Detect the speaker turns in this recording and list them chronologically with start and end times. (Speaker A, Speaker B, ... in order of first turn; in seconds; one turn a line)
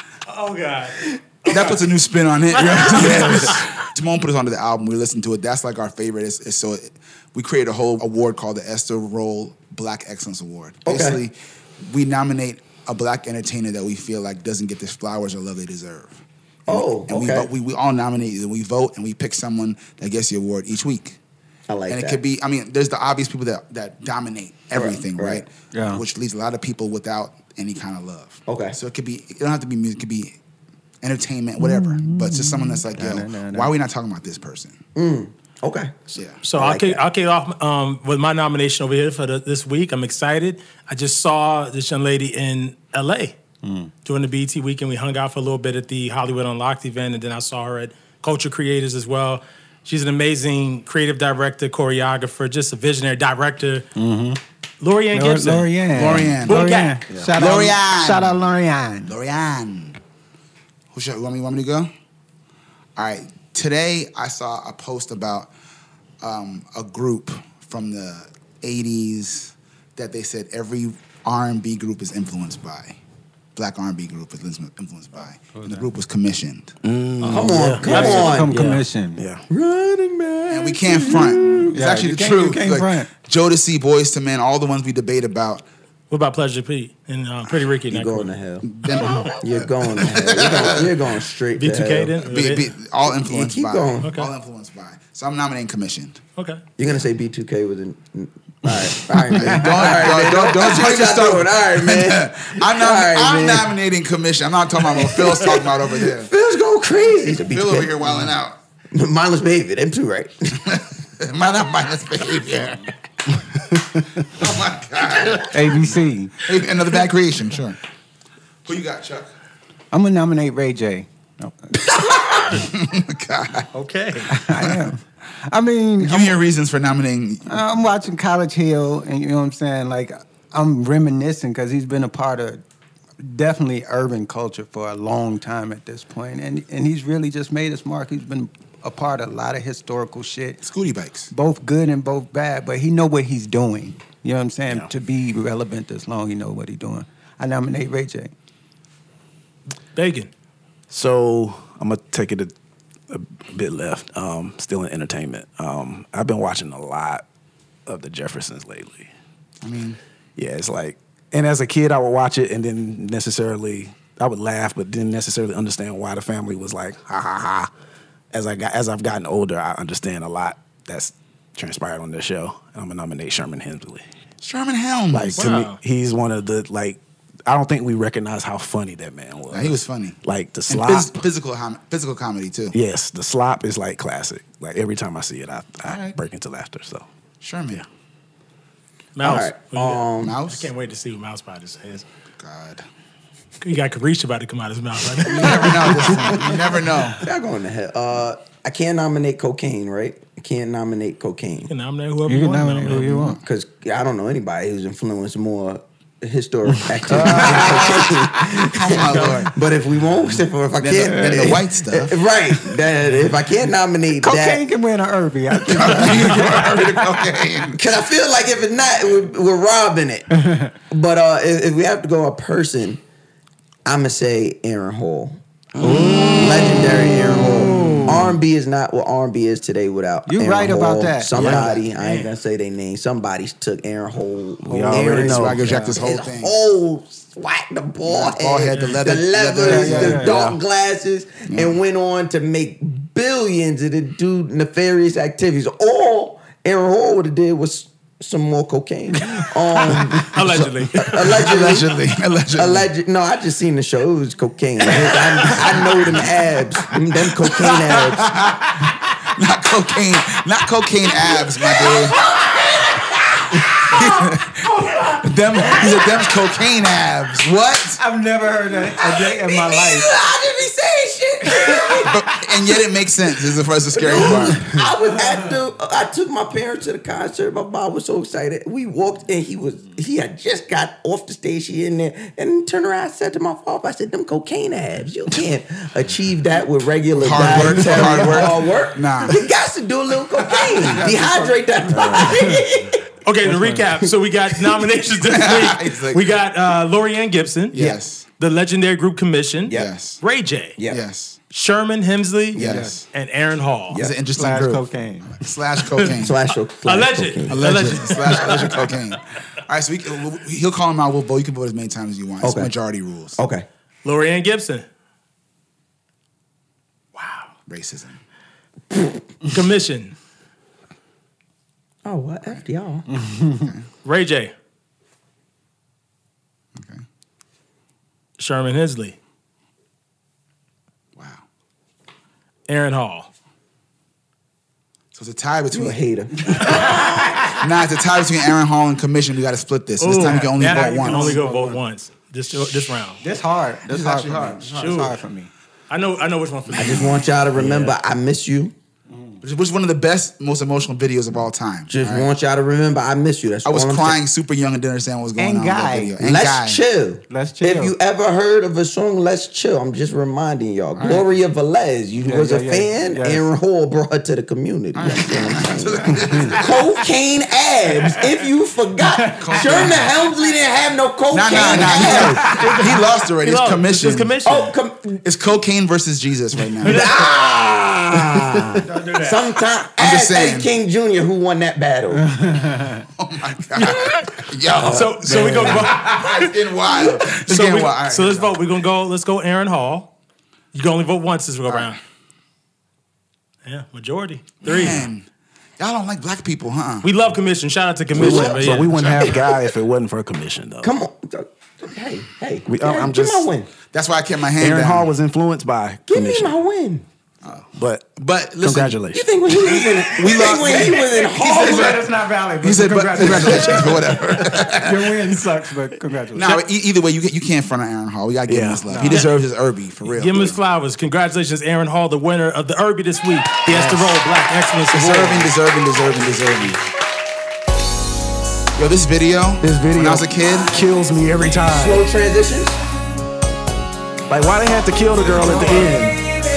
Speaker A: 0.3-1.9
Speaker B: 1.5-21.2
Speaker A: 2.5-3.7
Speaker C: 10.8-11.2
Speaker C: 16.7-17.5
Speaker C: 21.7-22.2
Speaker B: 21.9-30.4
Speaker C: 24.7-25.4
Speaker D: 25.7-26.0
Speaker C: 28.5-28.8
Speaker B: 31.0-34.8
Speaker D: 31.6-33.7
Speaker C: 35.0-37.0
Speaker B: 36.1-36.4
Speaker A: 36.4-43.4
Speaker D: 43.6-43.9
Speaker A: 44.0-53.9
Speaker D: 54.0-54.4
Speaker A: 54.8-55.9
Speaker D: 55.1-59.1
Speaker B: 55.9-58.5
Speaker A: 56.5-57.0
Speaker B: 59.0-60.0
Speaker B: 60.9-61.9
Speaker B: 63.0-65.5
Speaker B: 66.2-73.0
Speaker B: 73.6-76.8
Speaker D: 75.5-75.9
Speaker E: 76.8-79.4
Speaker A: 77.2-78.3
Speaker C: 77.2-78.6
Speaker D: 77.8-79.2
Speaker C: 79.5-81.8
Speaker B: 80.5-85.6
Speaker D: 81.7-83.1
Speaker A: 86.1-88.3
Speaker C: 87.9-88.7
Speaker B: 88.6-90.9
Speaker D: 89.0-89.3
Speaker C: 89.4-92.2
Speaker A: 91.6-92.7
Speaker B: 92.2-96.2
Speaker C: 93.1-94.1
Speaker A: 94.0-94.3
Speaker A: 96.4-96.6
Speaker C: 96.8-103.7
Speaker D: 98.7-99.9
Speaker B: 99.3-106.3
Speaker C: 104.8-108.2
Speaker B: 107.3-108.6
Speaker C: 108.9-110.7
Speaker B: 110.7-112.9
Speaker B: 114.2-115.5
Speaker D: 115.5-116.4
Speaker B: 116.4-117.8
Speaker B: 118.6-119.3
Speaker D: 119.9-121.7
Speaker B: 121.9-123.7
Speaker A: 123.7-124.3
Speaker D: 124.3-126.4
Speaker B: 126.0-127.6
Speaker D: 127.5-132.6
Speaker D: 133.2-140.6
Speaker B: 140.6-141.3
Speaker D: 141.3-148.3
Speaker A: 149.9-150.3
Speaker E: 150.9-152.5
Speaker E: 153.1-157.2
Speaker E: 157.9-159.1
Speaker B: 159.6-160.0
Speaker E: 160.4-167.7
Speaker E: 168.3-174.1
Speaker B: 174.4-175.5
Speaker E: 175.1-181.2
Speaker A: 175.4-175.8
Speaker B: 179.5-182.8
Speaker E: 182.7-187.1
Speaker B: 185.8-186.2
Speaker B: 187.4-187.8
Speaker A: 189.2-192.1
Speaker C: 189.2-190.4
Speaker B: 190.2-190.7
Speaker B: 192.4-192.8
Speaker A: 193.6-196.2
Speaker B: 195.2-197.3
Speaker C: 197.2-201.7
Speaker A: 201.7-203.3
Speaker D: 202.3-203.4
Speaker C: 203.4-214.6
Speaker D: 206.9-208.0
Speaker B: 207.2-209.5
Speaker A: 209.0-209.5
Speaker B: 210.8-212.2
Speaker D: 210.9-211.6
Speaker D: 214.2-217.1
Speaker B: 215.6-217.8
Speaker C: 217.8-220.3
Speaker D: 220.4-220.7
Speaker C: 220.9-223.0
Speaker C: 223.9-252.0
Speaker E: 225.8-226.9
Speaker E: 227.7-228.3
Speaker D: 230.3-232.1
Speaker E: 231.3-231.8
Speaker E: 234.6-235.6
Speaker D: 235.0-235.9
Speaker B: 235.0-236.5
Speaker B: 238.0-240.2
Speaker D: 239.6-240.4
Speaker E: 240.2-240.6
Speaker B: 241.5-241.8
Speaker A: 250.2-251.5
Speaker B: 251.3-252.9
Speaker C: 252.5-258.4
Speaker A: 255.1-255.6
Speaker B: 255.5-256.0
Speaker B: 257.4-262.2
Speaker C: 261.4-264.0
Speaker D: 263.7-265.9
Speaker B: 263.9-264.7
Speaker B: 265.2-268.0
Speaker D: 268.0-270.1
Speaker C: 269.0-272.2
Speaker D: 271.4-272.4
Speaker B: 272.1-274.7
Speaker C: 273.9-293.0
Speaker D: 274.1-275.3
Speaker B: 287.2-289.4
Speaker D: 287.6-288.0
Speaker B: 290.4-291.0
Speaker D: 290.8-292.7
Speaker E: 291.9-292.3
Speaker A: 293.2-300.8
Speaker D: 293.4-293.9
Speaker B: 295.2-296.3
Speaker B: 297.7-298.3
Speaker B: 299.7-300.2
Speaker B: 300.9-301.4
Speaker A: 301.5-304.0
Speaker B: 302.5-303.1
Speaker C: 302.6-302.8
Speaker D: 302.6-302.9
Speaker B: 303.9-306.4
Speaker D: 304.3-305.5
Speaker C: 306.2-307.8
Speaker A: 306.8-308.9
Speaker B: 307.5-313.4
Speaker C: 312.4-312.7
Speaker C: 313.4-313.7
Speaker A: 314.0-314.9
Speaker A: 317.1-317.5
Speaker B: 317.7-318.2
Speaker A: 319.5-320.1
Speaker C: 322.1-323.1
Speaker D: 323.1-323.7
Speaker B: 323.6-323.9
Speaker A: 324.0-324.5
Speaker B: 326.8-327.0
Speaker A: 328.4-329.2
Speaker B: 331.2-331.4
Speaker A: 332.7-333.3
Speaker B: 335.1-336.0
Speaker C: 335.7-337.4
Speaker A: 336.6-337.4
Speaker B: 337.6-341.4
Speaker A: 340.0-343.2
Speaker D: 340.4-341.8
Speaker D: 343.2-345.5
Speaker B: 343.9-344.7
Speaker A: 344.7-345.2
Speaker A: 345.9-347.2
Speaker B: 346.7-347.2
Speaker C: 346.7-348.7
Speaker D: 347.6-347.9
Speaker D: 349.1-349.4
Speaker B: 349.4-352.3
Speaker C: 351.9-354.2
Speaker B: 353.6-356.8
Speaker D: 355.4-356.2
Speaker C: 356.2-372.8
Speaker D: 357.3-357.9
Speaker B: 360.9-361.3
Speaker D: 362.2-363.4
Speaker B: 364.9-366.9
Speaker B: 369.4-370.1
Speaker D: 369.6-369.9
Speaker B: 371.3-374.4
Speaker A: 371.7-374.7
Speaker C: 374.4-375.2
Speaker B: 375.2-377.2
Speaker C: 376.8-382.3
Speaker A: 376.9-377.3
Speaker A: 378.9-379.5
Speaker B: 379.9-380.7
Speaker D: 382.2-383.1
Speaker B: 383.2-388.7
Speaker A: 383.8-390.1
Speaker C: 384.8-385.3
Speaker E: 385.3-385.8
Speaker A: 390.7-392.0
Speaker A: 393.6-395.1
Speaker B: 394.6-395.3
Speaker B: 395.8-397.1
Speaker A: 397.0-399.1
Speaker E: 398.1-400.9
Speaker C: 398.1-399.7
Speaker B: 398.7-399.4
Speaker C: 400.8-403.7
Speaker E: 402.7-403.5
Speaker B: 403.9-405.1
Speaker E: 404.6-406.5
Speaker C: 406.1-407.1
Speaker B: 407.4-409.1
Speaker E: 407.7-409.3
Speaker C: 409.1-412.0
Speaker B: 409.9-412.1
Speaker D: 410.7-416.6
Speaker B: 412.6-415.3
Speaker B: 416.3-420.6
Speaker E: 418.5-419.2
Speaker A: 420.1-425.5
Speaker B: 423.7-424.2
Speaker B: 424.9-426.8
Speaker B: 428.8-430.9
Speaker E: 429.6-432.1
Speaker C: 431.7-432.8
Speaker E: 434.3-436.2
Speaker B: 435.3-436.1